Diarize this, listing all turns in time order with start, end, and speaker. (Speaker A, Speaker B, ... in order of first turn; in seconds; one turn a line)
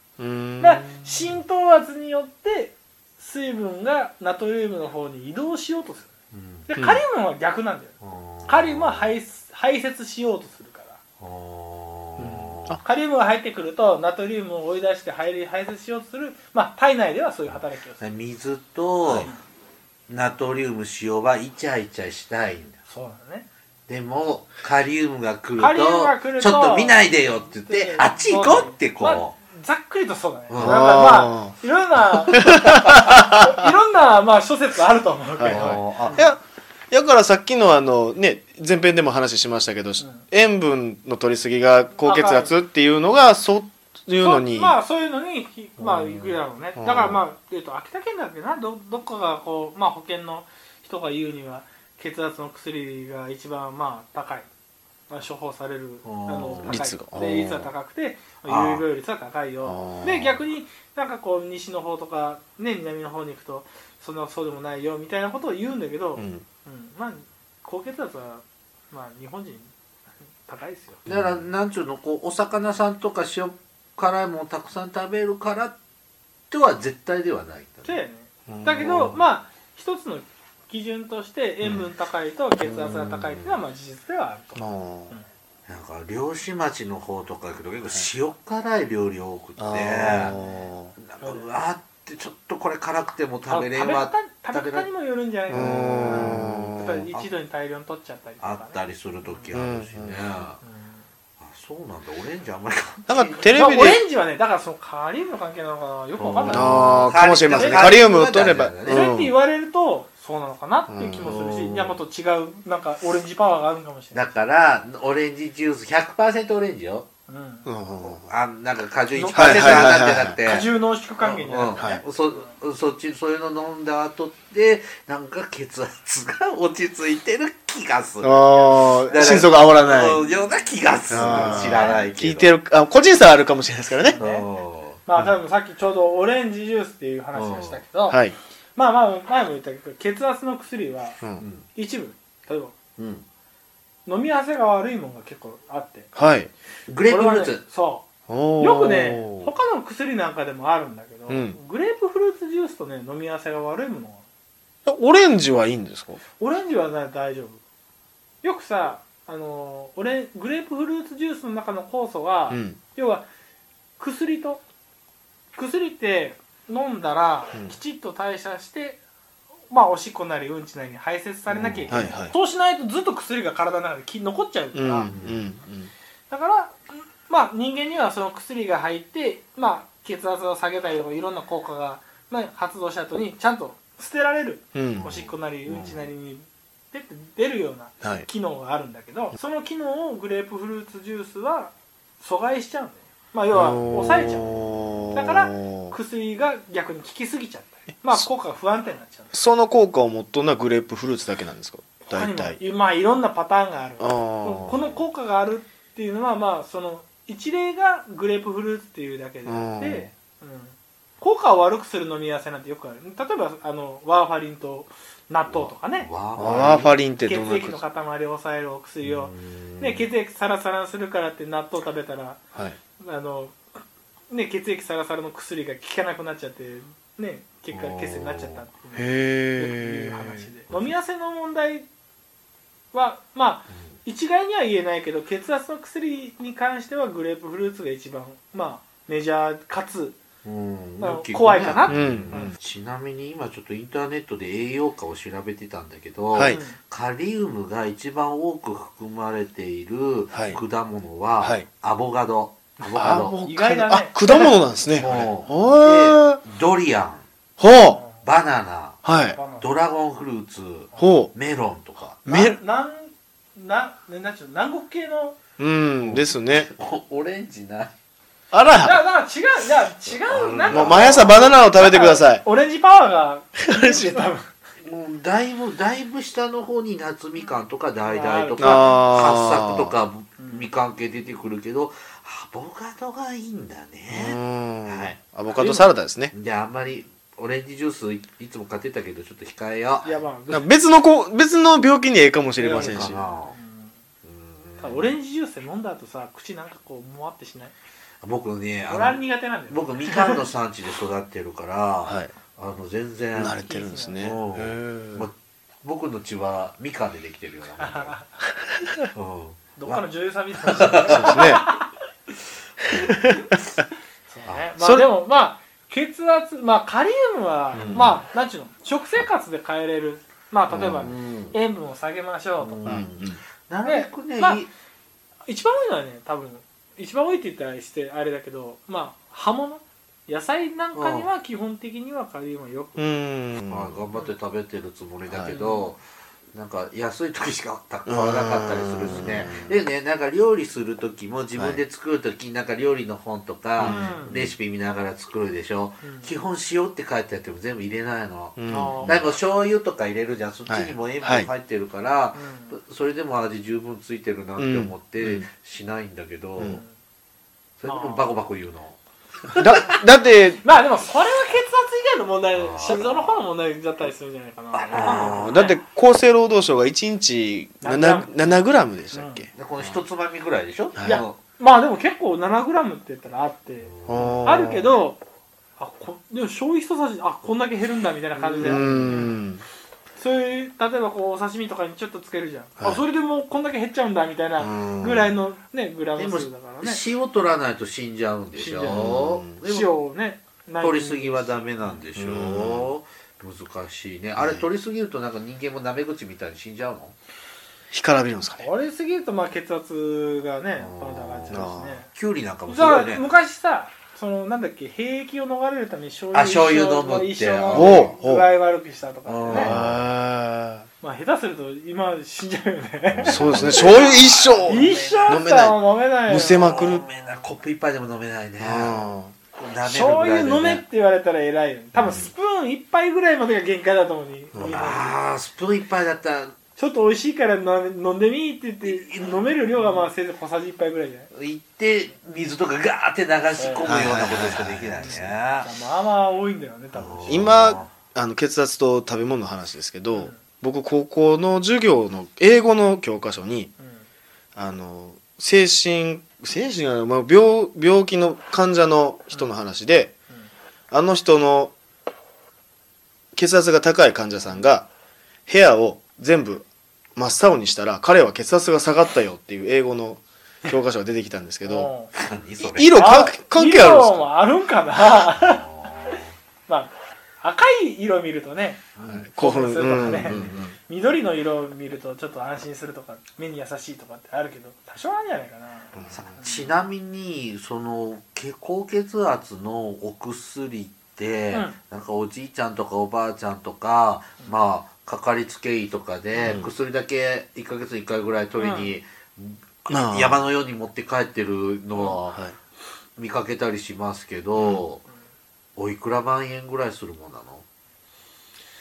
Speaker A: 0.2-1.1
Speaker B: 0.6-6.1
Speaker C: 6.3-6.7
Speaker B: 6.7-11.0
Speaker C: 8.0-9.1
Speaker C: 11.2-12.8
Speaker A: 12.2-12.8
Speaker B: 12.2-18.0
Speaker C: 17.5-19.3
Speaker C: 20.1-22.8
Speaker B: 22.9-23.5
Speaker C: 23.9-29.3
Speaker B: 25.6-36.2
Speaker C: 30.5-30.8
Speaker A: 30.6-31.5
Speaker A: 32.3-33.7
Speaker A: 35.4-36.4
Speaker C: 35.4-36.2
Speaker A: 36.9-44.7
Speaker B: 42.0-42.5
Speaker B: 44.2-54.5
Speaker C: 45.8-46.4
Speaker A: 46.8-47.2
Speaker B: 55.1-69.7
Speaker C: 56.0-56.8
Speaker A: 56.6-57.7
Speaker C: 58.5-58.8
Speaker A: 59.6-60.4
Speaker A: 66.2-66.4
Speaker B: 70.4-71.0
Speaker C: 71.1-75.8
Speaker A: 71.1-71.3
Speaker C: 76.5-78.0
Speaker B: 77.8-85.3
Speaker A: 78.5-79.1
Speaker C: 78.8-79.1
Speaker A: 81.6-81.9
Speaker C: 82.9-83.6
Speaker A: 84.5-85.1
Speaker C: 85.7-90.4
Speaker A: 89.6-90.9
Speaker B: 90.3-90.7
Speaker C: 91.0-94.9
Speaker B: 91.2-91.5
Speaker B: 93.5-99.5
Speaker A: 95.5-97.0
Speaker C: 95.5-97.3
Speaker C: 98.4-100.6
Speaker A: 99.5-100.2
Speaker B: 100.6-101.0
Speaker C: 101.4-103.8
Speaker A: 103.1-104.0
Speaker B: 103.5-107.9
Speaker C: 106.2-109.1
Speaker A: 106.5-109.3
Speaker B: 108.9-114.2
Speaker A: 110.9-111.4
Speaker C: 111.2-112.0
Speaker C: 114.1-117.1
Speaker B: 117.3-117.7
Speaker A: 117.7-118.2
Speaker C: 118.0-128.5
Speaker B: 119.1-122.5
Speaker A: 119.3-120.4
Speaker A: 128.2-130.2
Speaker B: 128.4-129.4
Speaker C: 129.1-132.5
Speaker A: 131.1-134.2
Speaker B: 131.1-132.1
Speaker B: 134.0-134.4
Speaker C: 134.1-135.0
Speaker B: 135.0-138.2
Speaker C: 137.3-137.8
Speaker A: 138.1-138.3
Speaker B: 138.8-141.2
Speaker C: 141.4-141.6
Speaker B: 141.7-142.7
Speaker C: 143.0-143.2
Speaker B: 144.1-146.1
Speaker A: 146.1-146.5
Speaker C: 146.9-147.6
Speaker B: 147.1-148.1
Speaker A: 148.3-149.5
Speaker B: 148.6-154.2
Speaker A: 151.3-151.6
Speaker A: 154.8-156.2
Speaker B: 156.4-157.6
Speaker B: 158.4-163.2
Speaker A: 162.5-162.8
Speaker B: 164.0-164.6
Speaker B: 165.5-169.0
Speaker B: 169.7-175.1
Speaker C: 171.5-172.0
Speaker A: 171.9-172.3
Speaker A: 174.7-175.9
Speaker C: 175.1-175.4
Speaker B: 176.3-199.3
Speaker A: 184.7-185.1
Speaker C: 184.9-186.0
Speaker A: 188.0-188.3
Speaker A: 193.5-195.9
Speaker A: 199.3-202.6
Speaker B: 202.0-222.4
Speaker A: 204.0-204.8
Speaker A: 209.4-210.1
Speaker C: 215.5-216.9
Speaker A: 216.4-217.8
Speaker C: 219.0-220.1
Speaker B: 223.0-223.6
Speaker B: 224.3-231.9
Speaker C: 227.7-228.6
Speaker A: 228.9-230.5
Speaker B: 232.9-240.2
Speaker C: 240.4-253.4
Speaker B: 241.0-242.6
Speaker A: 241.8-242.5
Speaker A: 246.3-246.6
Speaker B: 246.5-246.8
Speaker A: 250.3-250.6
Speaker A: 251.4-251.7
Speaker B: 252.8-255.7
Speaker A: 253.0-256.4
Speaker C: 255.0-257.2
Speaker A: 257.6-258.0
Speaker B: 257.9-258.2
Speaker C: 258.2-259.0
Speaker A: 259.0-259.4
Speaker B: 259.3-259.7
Speaker C: 259.6-262.5
Speaker B: 260.9-261.2
Speaker A: 261.0-261.3
Speaker B: 262.2-265.4
Speaker A: 262.3-262.6
Speaker A: 265.6-266.7
Speaker C: 266.1-267.9
Speaker A: 268.5-269.0
Speaker B: 268.8-274.5
Speaker C: 270.1-271.7
Speaker A: 270.7-272.4
Speaker A: 273.7-274.2
Speaker C: 274.8-290.1
Speaker B: 278.0-279.1
Speaker A: 278.6-279.9
Speaker B: 280.4-280.7
Speaker A: 284.1-286.3
Speaker B: 290.0-290.7
Speaker A: 290.5-293.2
Speaker B: 292.6-293.9
Speaker C: 292.7-293.5
Speaker C: 294.2-295.1
Speaker B: 294.8-297.7
Speaker C: 298.2-303.6
Speaker B: 298.9-300.4
Speaker A: 302.0-302.3
Speaker A: 303.4-305.3
Speaker B: 303.6-304.3
Speaker C: 304.2-308.2
Speaker B: 307.8-308.3
Speaker A: 308.5-308.9
Speaker C: 309.1-310.0
Speaker B: 309.7-311.9
Speaker C: 310.6-311.4
Speaker A: 311.1-311.6
Speaker A: 312.9-313.6
Speaker B: 313.0-313.6
Speaker B: 314.3-323.1
Speaker A: 314.8-315.1
Speaker C: 317.7-318.1
Speaker A: 317.7-318.2
Speaker A: 320.7-321.1
Speaker C: 321.0-321.6
Speaker C: 322.6-324.7
Speaker A: 322.8-323.4
Speaker B: 323.8-324.6
Speaker B: 325.5-333.0
Speaker C: 330.9-331.2
Speaker A: 333.0-333.9
Speaker C: 333.7-336.0
Speaker A: 335.3-335.5
Speaker B: 335.5-335.8
Speaker C: 336.5-356.8
Speaker A: 338.1-339.8
Speaker A: 343.8-344.5
Speaker B: 343.8-344.4
Speaker B: 346.0-346.3
Speaker A: 348.6-349.3
Speaker B: 348.7-349.2
Speaker A: 350.7-351.5
Speaker B: 352.3-352.8
Speaker A: 354.6-355.5
Speaker C: 357.8-359.0
Speaker B: 357.8-358.3
Speaker B: 359.5-360.0
Speaker A: 359.5-360.6
Speaker B: 360.6-365.8
Speaker C: 362.5-363.4
Speaker C: 364.7-365.6
Speaker A: 365.0-369.9
Speaker B: 367.8-368.6
Speaker B: 369.1-369.5
Speaker C: 369.5-371.4
Speaker A: 371.0-371.2
Speaker B: 371.0-375.2
Speaker C: 373.8-374.4
Speaker A: 374.1-374.9
Speaker B: 375.8-379.3
Speaker C: 378.4-379.3
Speaker A: 378.6-379.6
Speaker B: 380.2-387.0
Speaker A: 384.6-385.3
Speaker C: 386.2-389.9
Speaker B: 388.6-392.0
Speaker A: 388.9-389.5
Speaker C: 390.8-397.1
Speaker A: 392.1-392.9
Speaker A: 394.4-394.7
Speaker A: 397.9-398.7
Speaker B: 398.6-402.1
Speaker C: 400.8-403.2
Speaker A: 401.5-402.0
Speaker B: 402.7-409.7
Speaker C: 406.3-408.1
Speaker A: 407.7-408.5
Speaker C: 409.2-410.0
Speaker A: 409.5-410.9
Speaker B: 411.0-417.1
Speaker C: 413.1-415.4
Speaker A: 413.3-417.1
Speaker C: 416.5-419.0
Speaker A: 418.6-419.3
Speaker C: 419.5-420.8
Speaker B: 419.8-425.2
Speaker A: 421.9-422.3
Speaker A: 424.5-424.8
Speaker C: 424.6-426.5
Speaker B: 426.8-431.3
Speaker C: 428.8-430.1
Speaker C: 431.3-435.7
Speaker B: 433.5-434.2
Speaker A: 433.9-435.3
Speaker B: 435.0-437.5
Speaker C: 436.9-437.9
Speaker A: 437.3-443.7
Speaker B: 440.1-440.4
Speaker B: 443.8-444.1
Speaker A: 444.6-450.1
Speaker A: 450.9-451.7
Speaker A: 453.3-454.9
Speaker A: 455.5-461.9
Speaker B: 461.6-462.1
Speaker C: 462.1-463.0
Speaker A: 462.6-464.2
Speaker B: 462.9-476.7
Speaker C: 465.3-466.3
Speaker C: 469.0-470.7
Speaker A: 469.1-470.7
Speaker C: 476.1-492.4
Speaker B: 486.4-486.6
Speaker A: 486.4-486.7
Speaker B: 488.6-488.9
Speaker A: 489.9-490.4
Speaker C: 493.2-495.0
Speaker A: 494.6-494.8
Speaker C: 495.8-497.6